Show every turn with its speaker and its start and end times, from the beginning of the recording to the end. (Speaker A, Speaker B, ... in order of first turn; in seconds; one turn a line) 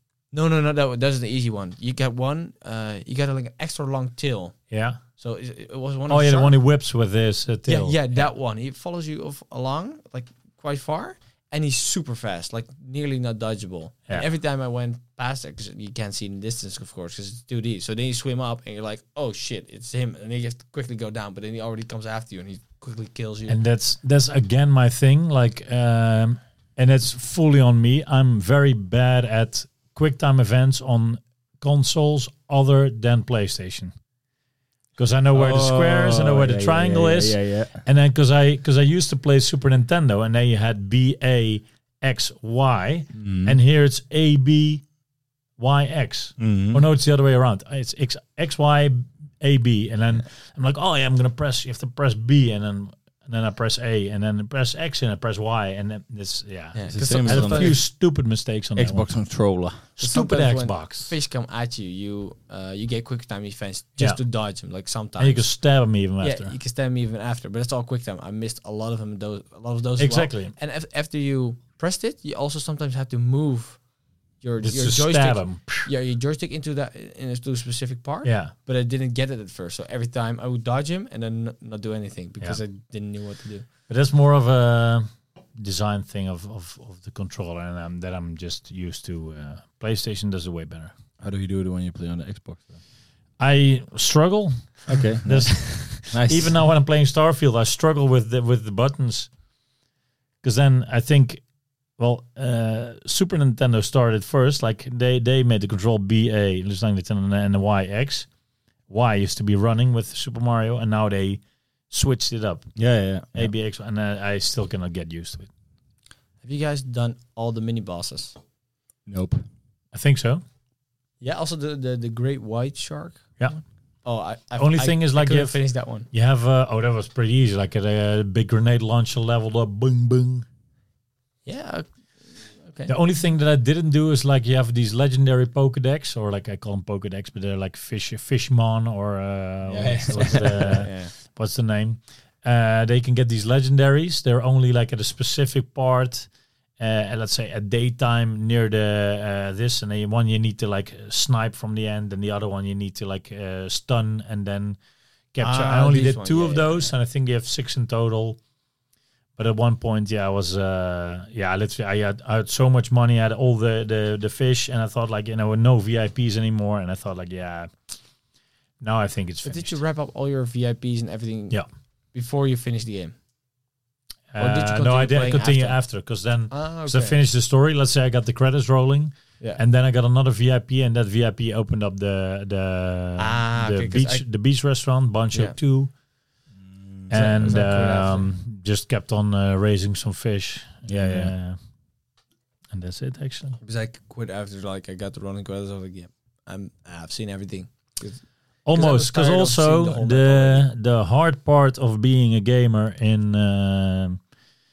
Speaker A: 0.3-4.5
Speaker B: 4.7-5.0
Speaker A: 5.2-6.5
Speaker B: 6.1-8.2
Speaker A: 7.7-23.6
Speaker B: 23.5-33.9
Speaker B: 35.0-44.8
Speaker C: 35.3-37.8
Speaker C: 43.1-43.6
Speaker B: 45.6-59.0
Speaker C: 46.4-46.8
Speaker A: 56.7-57.8
Speaker C: 56.9-57.8
Speaker C: 58.8-59.8
Speaker B: 60.0-61.1
Speaker A: 60.0-65.5
Speaker B: 65.2-66.5
Speaker A: 66.2-73.8
Speaker B: 70.0-70.5
Speaker A: 74.4-83.7
Speaker B: 74.6-75.9
Speaker B: 78.2-78.5
Speaker B: 83.9-90.9
Speaker C: 91.2-92.8
Speaker B: 93.4-99.3
Speaker C: 94.9-96.6
Speaker B: 100.4-101.4
Speaker B: 102.0-108.3
Speaker B: 108.9-112.7
Speaker C: 112.8-113.5
Speaker B: 113.3-115.5
Speaker A: 116.4-118.3
Speaker C: 119.0-119.4
Speaker B: 119.9-120.4
Speaker A: 121.2-126.1
Speaker B: 124.6-125.6
Speaker B: 126.1-130.4
Speaker A: 131.4-132.9
Speaker B: 132.9-146.3
Speaker C: 139.7-140.9
Speaker A: 140.7-141.1
Speaker B: 146.8-154.8
Speaker B: 155.3-158.4
Speaker A: 155.4-156.9
Speaker B: 159.4-167.7
Speaker B: 168.8-169.8
Speaker A: 169.4-171.6
Speaker A: 172.1-173.1
Speaker B: 174.3-185.9
Speaker A: 174.4-175.8
Speaker A: 176.5-177.2
Speaker A: 183.2-184.2
Speaker C: 186.6-187.2
Speaker B: 187.1-191.6
Speaker A: 187.1-188.3
Speaker C: 190.9-191.3
Speaker B: 192.7-193.6
Speaker A: 193.6-200.7
Speaker B: 198.7-204.2